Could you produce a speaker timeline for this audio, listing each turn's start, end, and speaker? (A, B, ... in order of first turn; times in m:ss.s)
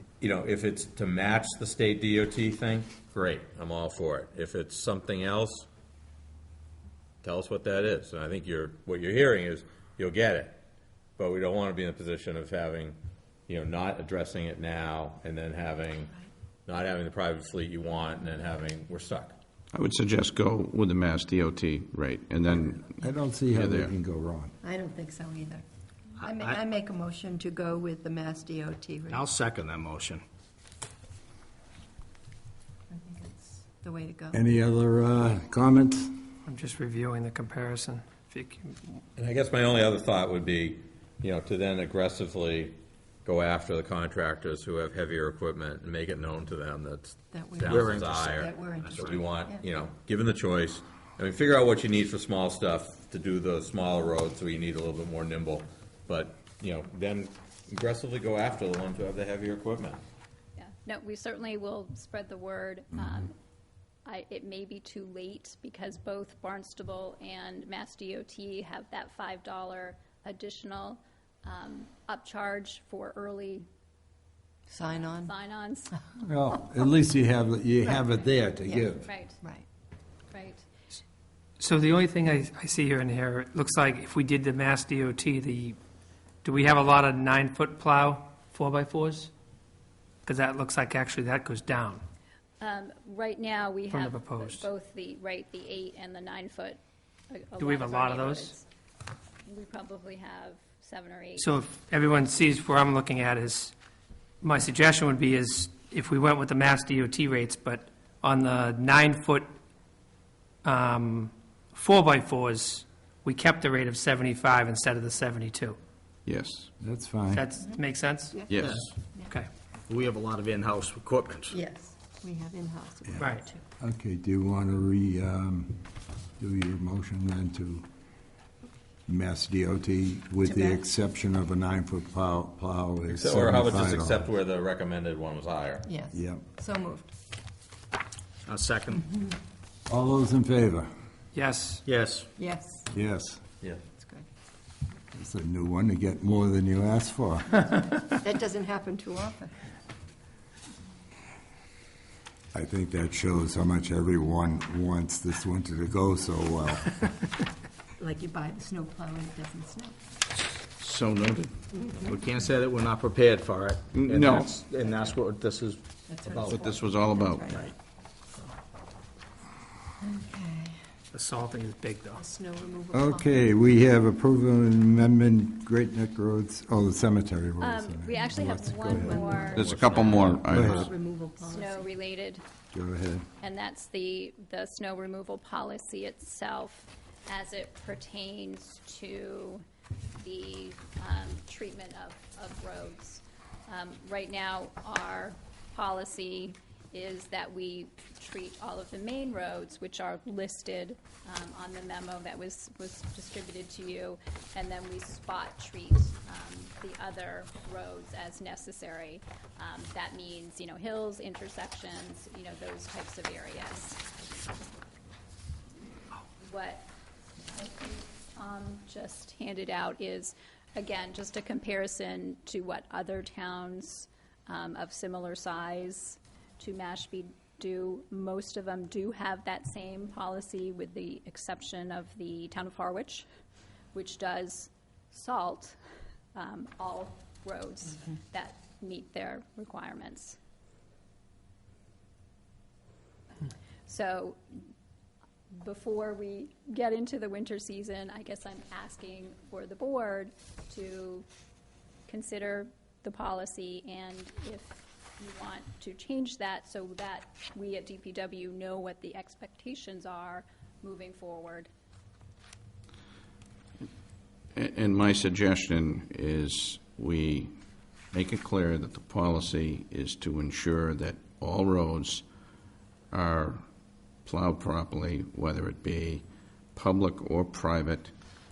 0:00.2-0:05.7 A
0:07.2-0:10.6 A
0:11.2-0:13.0 A
0:13.5-0:16.1 A
0:16.7-0:19.4 A
0:19.7-0:23.9 B
0:23.0-0:24.5 C
0:24.6-0:25.6 D
0:26.2-0:29.2 D
0:26.2-0:26.6 E
0:29.1-0:30.2 E
0:32.9-0:34.4 D
0:34.3-0:36.2 C
0:36.5-0:39.0 F
0:39.2-1:00.0 A
0:47.3-0:49.6 D
0:47.7-0:48.3 E
1:00.6-1:03.3 G
1:04.0-1:13.7 G
1:14.7-1:15.3 D
1:15.2-1:15.9 G
1:16.2-1:19.1 C
1:18.7-1:19.7 D
1:19.0-1:19.4 G
1:20.3-1:20.6 G
1:21.6-1:25.8 F
1:26.4-1:29.3 F
1:30.2-1:32.0 F
1:32.6-1:36.8 G
1:33.9-1:34.7 F
1:37.3-1:38.6 G
1:37.6-1:38.6 F
1:39.4-1:41.6 G
1:41.4-1:43.7 F
1:44.4-1:49.5 F
1:50.6-1:55.8 F
1:56.2-1:56.7 B
1:56.8-1:57.5 C
1:57.3-1:59.5 F
1:58.5-1:58.8 B
1:58.6-1:58.9 E
1:59.9-2:01.6 E
2:01.5-2:03.6 D
2:03.2-2:03.5 F
2:03.8-2:07.9 C
2:09.1-2:14.3 C
2:10.4-2:10.8 D
2:13.1-2:15.9 A
2:15.8-2:17.1 D
2:16.1-2:16.4 C
2:18.4-2:19.1 E
2:19.9-2:20.9 C
2:21.3-2:21.8 F
2:21.8-2:22.3 E
2:22.4-2:22.9 D
2:22.9-2:23.4 C
2:24.0-2:24.3 D
2:25.1-2:27.8 C
2:28.2-2:29.5 D
2:32.5-2:37.1 C
2:38.0-2:39.9 D
2:40.8-2:41.5 B
2:41.8-2:42.1 D
2:42.0-2:46.7 E
2:43.9-2:44.5 B
2:46.1-2:47.7 D
2:46.5-2:47.7 B
2:50.0-2:50.8 D
2:51.1-2:52.2 F
2:52.1-2:53.5 D
2:52.9-2:59.8 C
2:57.6-3:00.3 G
2:58.9-3:01.9 D
2:59.5-3:00.9 B
3:00.4-3:00.9 C
3:01.4-3:02.4 G
3:02.7-3:03.3 C
3:03.4-3:09.6 G
3:10.2-3:34.0 G
3:36.4-3:36.9 G
3:37.5-3:53.3 G
3:53.9-3:55.8 G
3:56.3-4:00.4 G
4:03.8-4:04.4 G
4:05.5-4:11.2 G
4:12.1-4:21.7 G
4:24.5-4:27.5 B
4:28.1-4:32.2 B
4:33.1-4:33.6 B
4:34.2-4:38.1 B